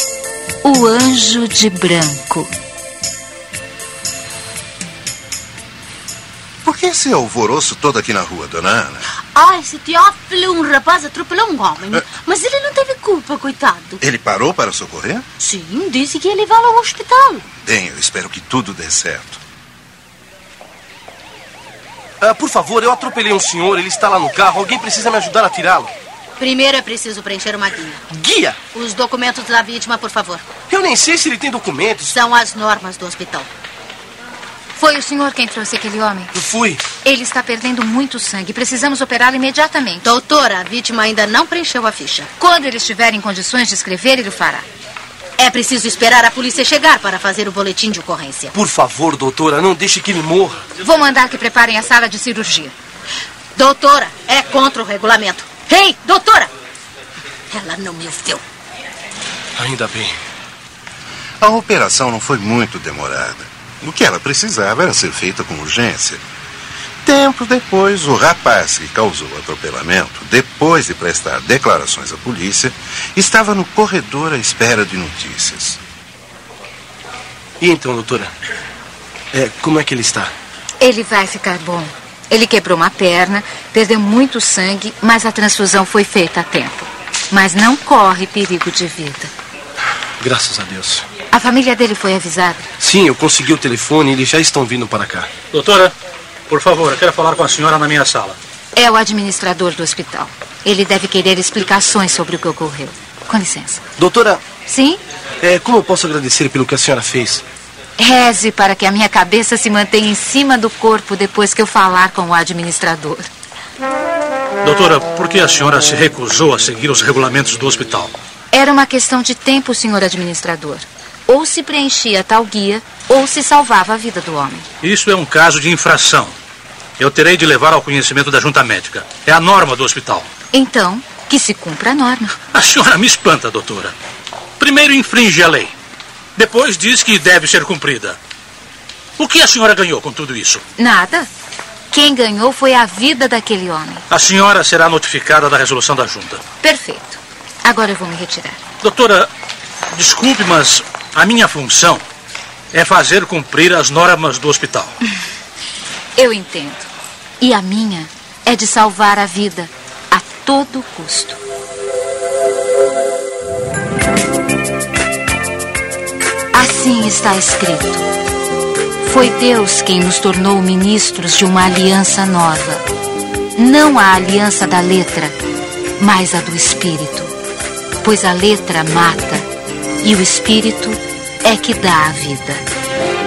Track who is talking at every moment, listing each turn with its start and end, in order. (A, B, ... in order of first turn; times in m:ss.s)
0:00.6-0:02.5 A
0:06.6-0:09.0 B
0:09.3-0:14.0 C
0:14.0-0:15.2 B
0:15.4-0:17.4 C
0:17.5-0:19.4 B
0:22.2-0:25.9 D
0:26.4-0:28.0 C
0:28.1-0:28.6 D
0:28.7-0:30.5 C
0:30.6-0:32.1 D
0:32.1-0:33.5 C
0:34.8-0:36.3 A
0:36.3-0:36.8 D
0:37.0-0:40.1 A
0:40.0-0:42.3 C
0:42.4-0:44.6 A
0:45.4-0:48.5 C
0:48.5-0:50.6 D
0:50.8-0:52.7 A
0:53.5-0:56.5 C
0:57.5-0:58.4 C
0:59.6-1:00.2 D
1:01.4-1:06.2 B
1:07.0-1:15.8 B
1:17.6-1:18.3 D
1:19.3-1:20.3 D
1:20.8-1:29.3 A
1:30.2-1:31.0 D
1:31.3-1:32.6 A
1:32.8-1:35.3 D
1:35.5-1:35.9 E
1:36.5-1:38.4 E
1:38.7-1:43.8 A
1:44.0-1:44.4 D
1:44.6-1:45.0 A
1:45.4-1:47.4 D
1:48.0-1:53.3 A
1:54.6-1:58.1 E
1:58.5-2:04.7 A
2:04.8-2:06.3 E
2:07.0-2:10.3 E
2:10.5-2:12.4 A
2:12.5-2:13.9 E
2:14.6-2:15.7 E
2:16.4-2:18.2 E
2:19.2-2:20.6 E
2:20.8-2:21.3 A
2:21.9-2:24.0 A
2:24.1-2:26.4 E
2:26.6-2:28.6 A
2:28.8-2:29.3 E
2:29.9-2:32.0 E
2:32.7-2:34.9 E
2:36.2-2:36.9 A
2:37.4-2:41.4 A
2:46.5-2:48.1 A
2:49.0-2:52.8 A
2:53.6-2:55.3 A
2:56.0-2:57.3 A
2:58.0-2:59.5 A
3:00.0-3:02.6 A